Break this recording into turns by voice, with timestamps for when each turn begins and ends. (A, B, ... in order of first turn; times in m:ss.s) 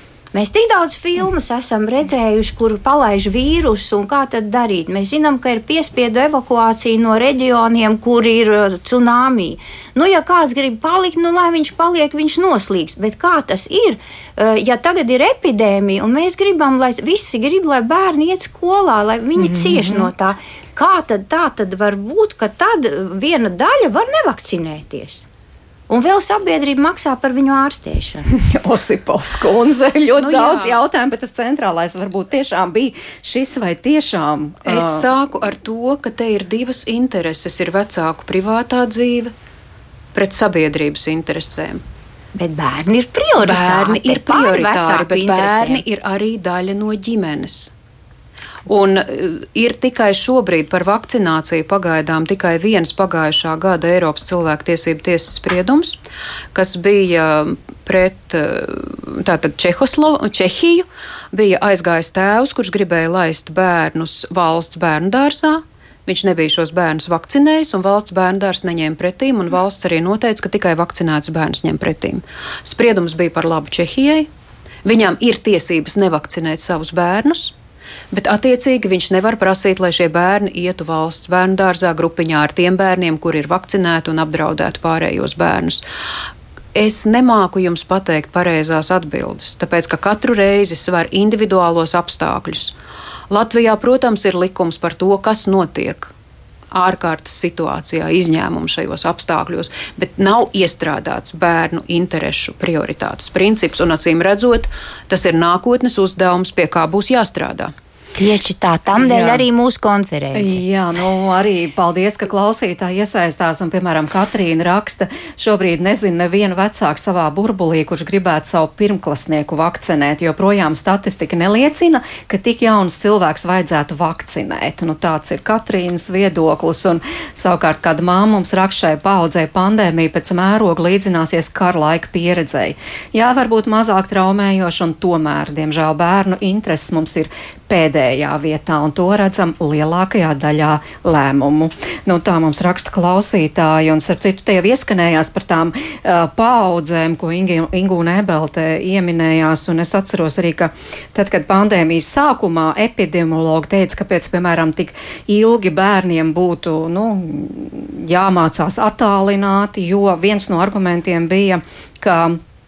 0:00.3-0:25.3 A
0:19.4-0:20.1 B
0:25.9-0:28.3 A
0:28.3-0:35.1 B
0:30.2-0:30.8 C
0:34.7-0:39.3 C
0:40.1-0:41.8 C
0:42.4-0:45.8 A
0:43.4-0:47.7 C
0:48.7-0:56.0 C
0:56.5-1:14.3 C
1:14.8-1:17.5 C
1:18.1-1:25.8 C
1:26.8-1:32.7 C
1:33.3-1:36.1 C
1:36.7-1:47.7 C
1:48.2-1:50.6 A
1:49.0-1:49.4 B
1:50.3-2:42.4 B